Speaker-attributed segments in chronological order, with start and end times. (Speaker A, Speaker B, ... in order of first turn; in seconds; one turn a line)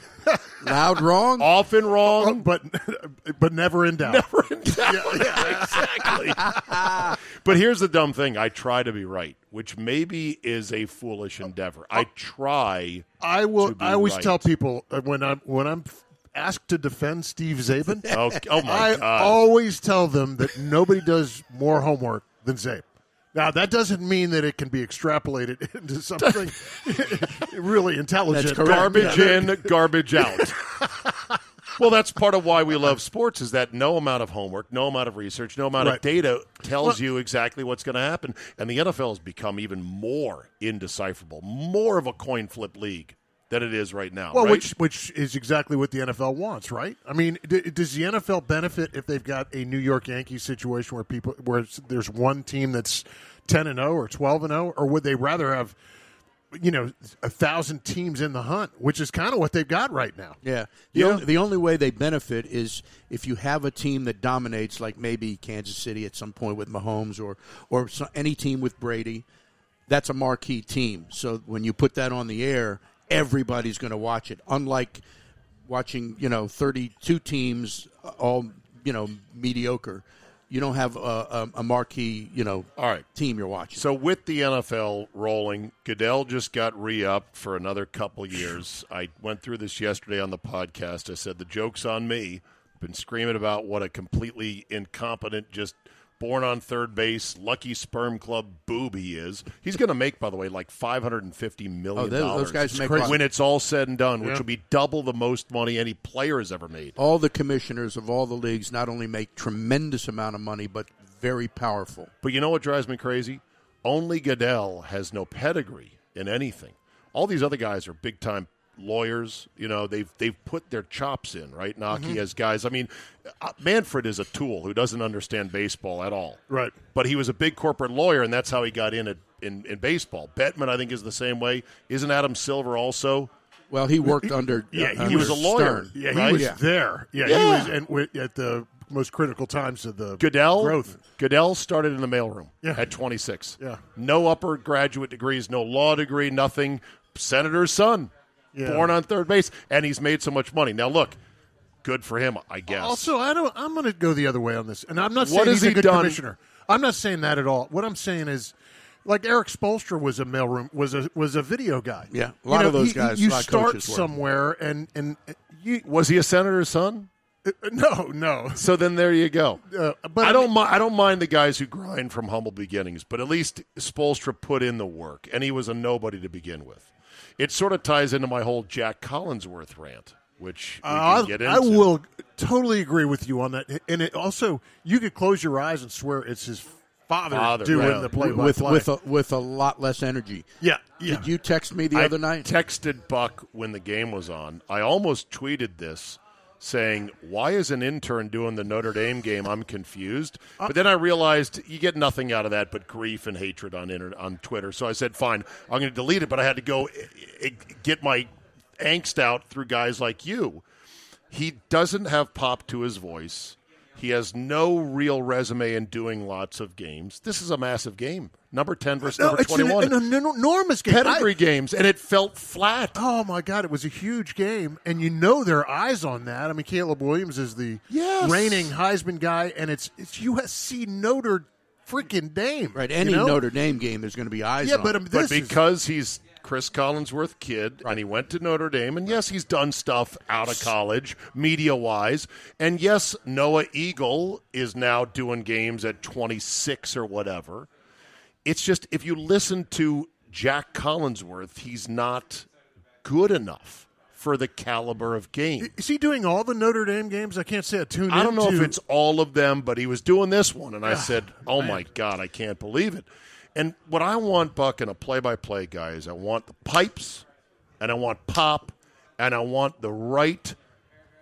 Speaker A: 0.6-1.5
Speaker B: 1.4-2.5
Speaker C: 2.0-4.3
Speaker B: 4.0-14.5
Speaker C: 4.8-6.2
Speaker C: 13.2-30.5
Speaker B: 18.1-19.4
Speaker A: 28.3-29.4
Speaker B: 28.6-30.6
Speaker B: 31.8-44.7
Speaker C: 35.8-36.0
Speaker C: 44.3-55.8
Speaker C: 56.5-60.4
Speaker A: 60.4-69.2
Speaker A: 69.9-75.0
Speaker A: 75.7-83.8
Speaker B: 82.8-83.1
Speaker B: 83.8-107.0
Speaker A: 102.0-103.2
Speaker A: 107.0-112.1
Speaker B: 112.2-126.4
Speaker C: 121.9-122.2
Speaker C: 126.5-126.8
Speaker B: 126.9-133.3
Speaker A: 133.7-136.6
Speaker C: 134.7-141.0
Speaker B: 135.0-136.5
Speaker B: 137.2-137.7
Speaker B: 140.2-148.1
Speaker C: 148.5-148.9
Speaker B: 148.6-151.2
Speaker B: 151.8-153.1
Speaker C: 152.7-158.5
Speaker B: 155.2-156.2
Speaker C: 159.1-165.9
Speaker A: 162.1-164.1
Speaker B: 165.9-167.1
Speaker C: 167.4-168.7
Speaker B: 168.6-169.6
Speaker C: 169.7-170.5
Speaker B: 170.2-181.9
Speaker C: 180.8-188.9
Speaker B: 187.3-188.1
Speaker A: 187.8-190.5
Speaker C: 190.6-191.3
Speaker A: 191.0-192.5
Speaker B: 191.9-210.6
Speaker B: 211.3-220.0
Speaker C: 219.0-221.3
Speaker B: 220.9-223.0
Speaker C: 222.9-233.4
Speaker B: 227.9-228.7
Speaker A: 232.8-235.0
Speaker C: 234.6-235.6
Speaker B: 235.1-247.7
Speaker B: 248.4-252.5
Speaker B: 253.0-255.7
Speaker C: 255.6-258.8
Speaker B: 258.1-267.2
Speaker C: 260.9-261.8
Speaker B: 267.8-270.6